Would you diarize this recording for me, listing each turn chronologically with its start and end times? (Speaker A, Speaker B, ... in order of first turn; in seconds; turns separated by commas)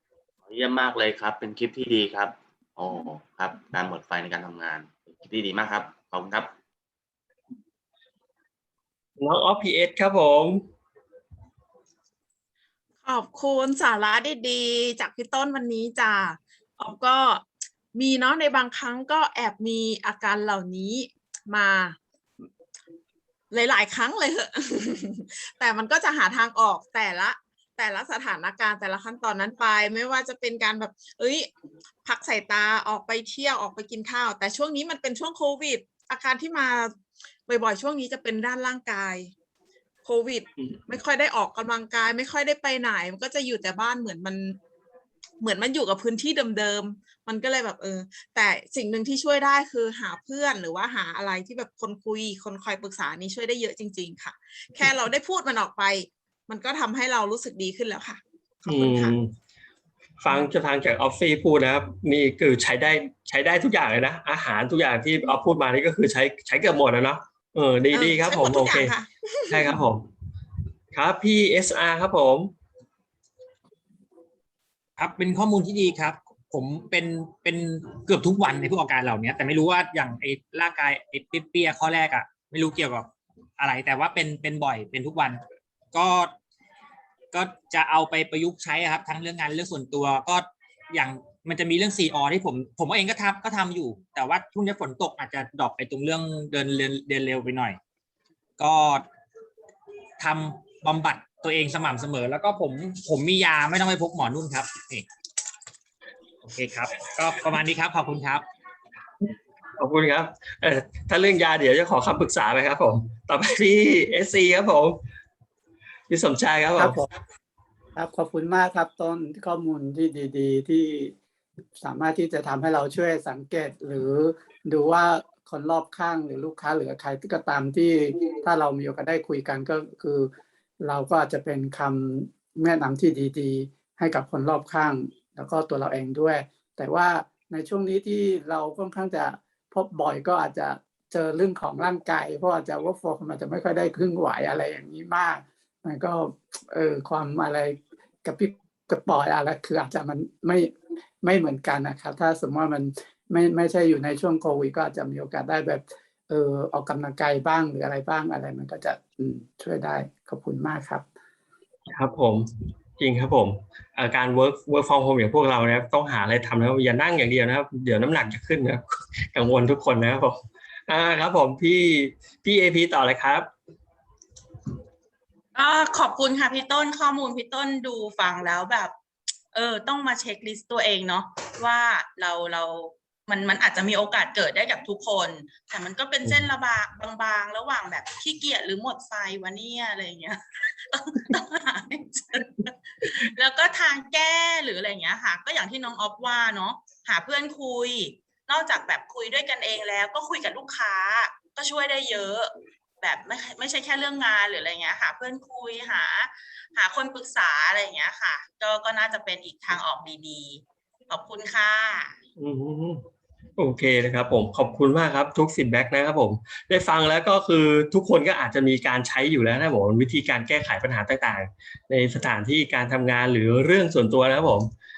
Speaker A: 0.5-6.5, Speaker B: 9.2-10.6, Speaker C: 13.0-22.0, Speaker C: 23.5-31.5, Speaker C: 32.0-39.3, Speaker C: 40.0-44.6, Speaker C: 45.4-59.1, Speaker B: 58.7-59.3, Speaker B: 60.2-69.0, Speaker C: 67.9-69.8, Speaker B: 69.5-70.1, Speaker B: 70.9-72.5, Speaker D: 75.0-85.4, Speaker D: 85.9-86.3, Speaker D: 87.3-97.8, Speaker D: 98.6-99.0, Speaker D: 100.2-105.0, Speaker D: 106.4-108.4, Speaker B: 109.2-115.0, Speaker B: 116.1-117.0, Speaker E: 116.8-117.0, Speaker E: 118.0-121.1, Speaker E: 121.8-130.3, Speaker E: 130.8-161.0, Speaker B: 161.9-173.5, Speaker F: 175.5-178.9, Speaker F: 179.5-212.1, Speaker B: 212.4-213.0, Speaker B: 213.6-224.7